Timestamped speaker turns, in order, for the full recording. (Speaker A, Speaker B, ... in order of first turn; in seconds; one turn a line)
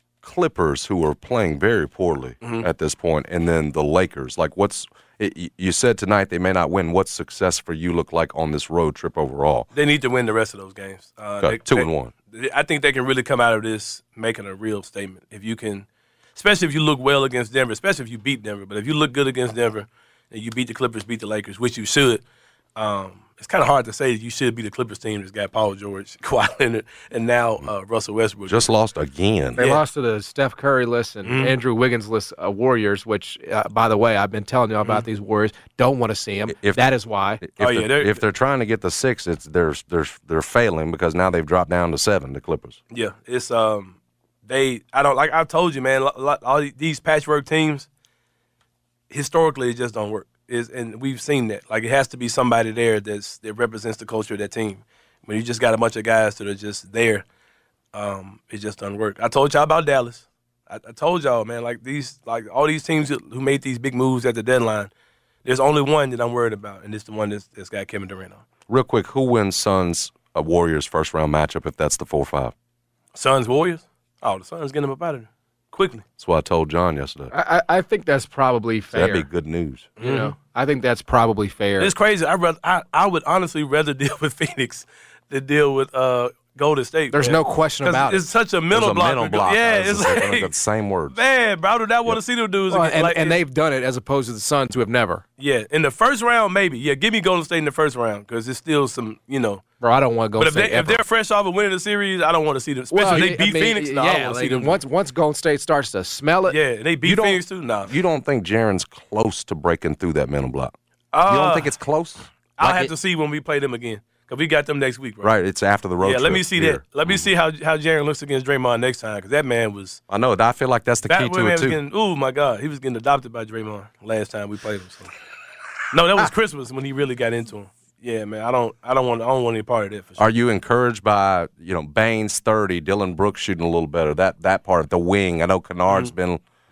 Speaker A: 0.2-9.7
Speaker B: 2.4-2.7
Speaker B: 9.7-22.2
Speaker A: 11.4-12.1
Speaker B: 22.8-28.7
Speaker A: 28.5-29.7
Speaker C: 29.6-37.4
Speaker B: 29.6-29.8
Speaker B: 31.2-31.6
Speaker A: 36.5-42.8
Speaker B: 37.6-38.2
Speaker B: 42.9-47.9
Speaker B: 49.1-57.2
Speaker B: 57.9-64.9
Speaker B: 65.5-68.4
Speaker A: 68.7-72.5
Speaker B: 73.2-76.0
Speaker A: 76.2-77.3
Speaker C: 77.3-79.3
Speaker A: 78.9-79.9
Speaker B: 80.0-80.3
Speaker C: 80.0-81.9
Speaker B: 81.8-90.6
Speaker C: 87.1-88.3
Speaker A: 88.7-91.2
Speaker B: 91.1-93.4
Speaker C: 92.7-95.2
Speaker B: 95.4-99.6
Speaker C: 99.8-101.0
Speaker B: 100.4-104.8
Speaker C: 102.9-106.6
Speaker B: 106.5-107.9
Speaker A: 107.0-110.7
Speaker B: 111.1-111.8
Speaker A: 111.3-112.9
Speaker B: 112.6-115.3
Speaker A: 115.2-117.3
Speaker B: 116.0-120.0
Speaker A: 120.1-121.8
Speaker B: 121.1-125.1
Speaker B: 125.9-130.3
Speaker A: 130.2-136.4
Speaker B: 135.9-136.1